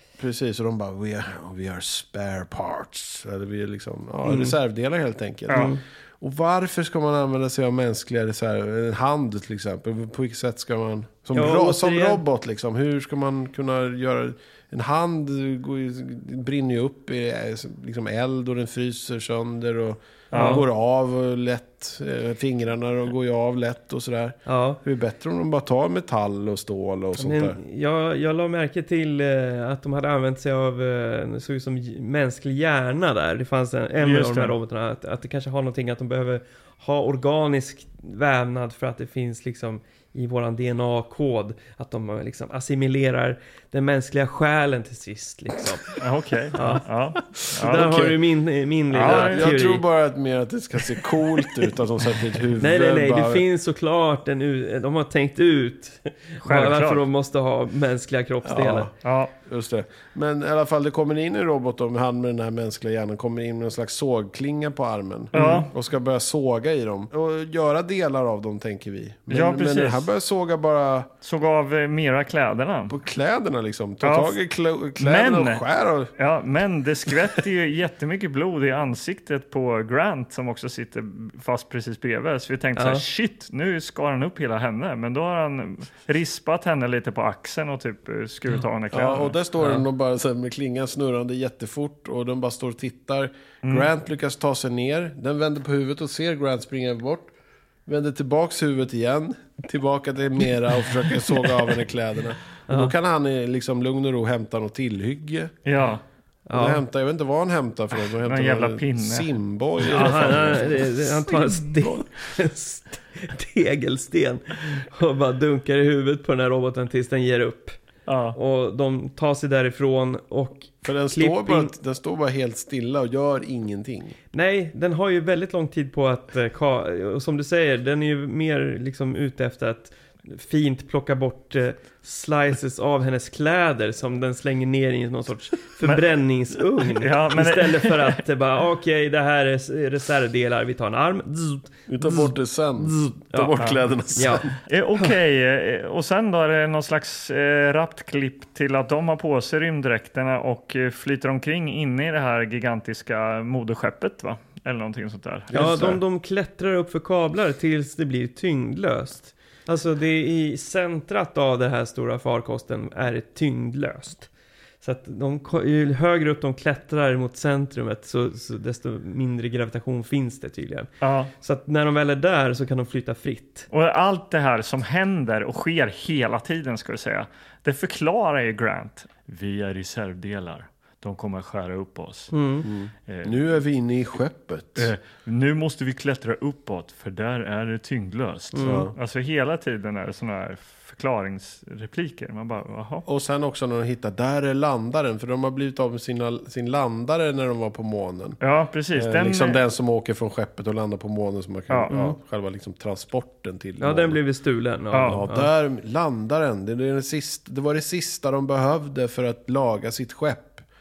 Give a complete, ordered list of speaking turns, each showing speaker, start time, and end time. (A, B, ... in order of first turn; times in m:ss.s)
0:00.2-0:27.6 A
0:04.2-0:04.6 B
0:05.5-0:05.8 B
0:11.3-0:12.2 B
0:20.3-0:20.6 C
0:20.3-0:20.6 B
0:24.5-0:24.8 B
0:27.2-0:45.9 B
0:34.0-0:34.6 C
0:46.0-0:47.9 C
0:46.5-0:46.8 B
0:47.3-0:48.2 A
0:47.6-0:49.8 B
0:48.9-0:49.5 C
0:49.0-0:53.4 A
0:52.6-0:58.9 B
0:56.4-0:57.0 C
0:58.4-0:58.9 A
0:59.0-0:59.3 C
0:59.4-1:11.1 A
1:05.3-1:05.7 B
1:05.3-1:05.7 C
1:09.3-1:10.1 C
1:11.2-1:13.0 C
1:12.9-1:16.1 A
1:14.0-1:14.4 C
1:15.0-1:15.6 C
1:16.2-1:29.4 C
1:22.8-1:23.0 B
1:28.9-1:37.3 A
1:37.9-1:45.6 A
1:42.7-1:42.9 B
1:45.7-1:46.0 C
1:46.5-1:46.8 B
1:46.5-1:51.3 A
1:48.2-1:49.3 C
1:49.8-1:50.7 C
1:49.9-1:57.8 B
1:58.1-1:58.4 C
1:58.3-2:01.7 B
2:00.8-2:04.2 A
2:04.3-2:23.5 B
2:16.9-2:18.2 C
2:21.9-2:24.6 A
2:24.2-2:25.1 B
2:24.7-2:35.7 C
2:35.5-2:36.0 A
2:35.5-2:44.3 B
2:44.8-2:53.7 B
2:51.0-2:51.3 C
2:53.7-3:02.3 C
3:02.3-3:02.7 B
3:02.6-3:04.9 A
3:03.1-3:03.5 C
3:04.8-3:13.0 C
3:08.5-3:08.9 B
3:08.6-3:08.9 A
3:13.1-3:18.4 A
3:18.4-3:19.6 C
3:19.0-3:24.2 A
3:21.9-3:22.2 B
3:23.8-3:25.5 B
3:24.9-3:25.2 C
3:25.0-3:30.7 A